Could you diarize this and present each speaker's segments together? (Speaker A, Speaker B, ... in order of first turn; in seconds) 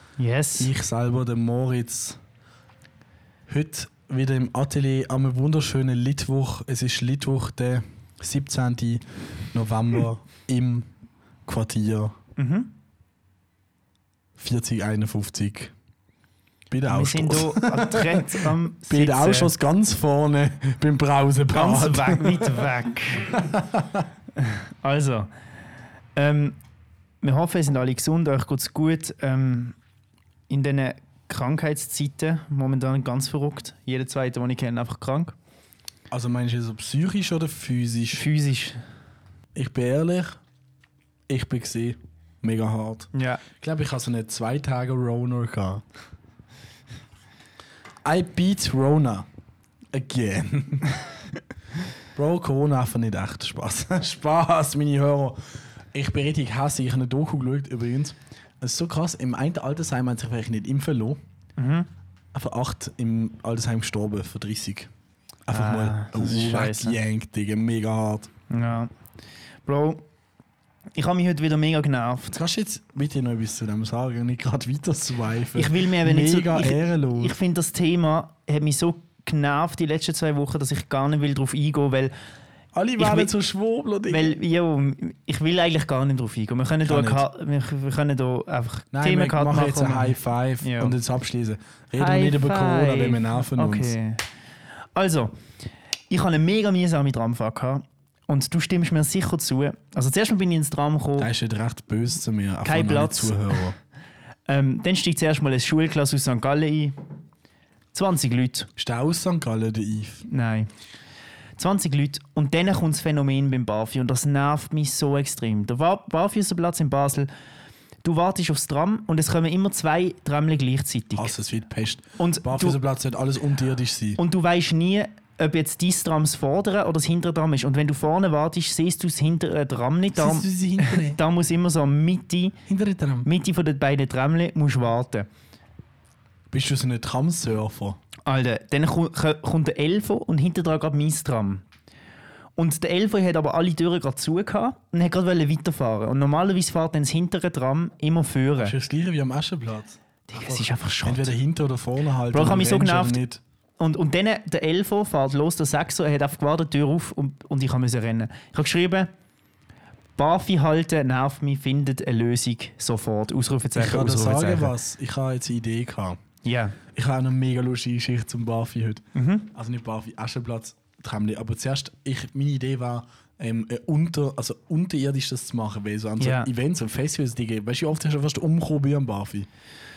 Speaker A: 0.2-0.7, 12.4-12.7, 16.9-19.5, 21.5-23.3, 24.4-25.3, 26.1-26.6, 27.2-29.7, 30.5-35.3, 38.1-38.8, 43.1-43.4, 61.6-61.9, 65.5-67.0, 68.5-68.9, 69.6-70.0, 70.9-72.4, 75.5-82.1, 83.0-83.3, 84.1-90.9, 92.0-94.2, 94.9-95.3, 96.1-101.3, 102.6-103.6, 104.5-107.0, 107.9-108.7, 110.3-110.7, 111.6-117.3, 118.0-121.3, 122.2-122.8, 124.2-132.6, 133.2-135.3, 138.2-141.6, 142.6-148.7, 150.3-151.3, 152.3-153.2, 153.8-159.1, 160.2-164.7, 166.4-166.8, 169.1-169.5, 176.2-176.5
Speaker B: 0.6-2.2, 3.5-10.9, 11.4-12.1, 14.4-15.7, 16.7-22.6, 23.2-24.1, 36.1-38.2, 39.5-40.4, 41.3-45.8, 48.0-49.3, 49.9-50.9, 52.1-61.2, 62.3-64.9, 65.5-68.3, 72.3-77.3, 82.7-84.3, 86.8-87.2, 88.9-93.9, 101.2-103.8, 108.8-110.2, 121.1-124.2, 130.1-131.2, 132.7-133.3, 136.5-138.0, 148.6-153.4, 163.8-166.2, 166.9-179.5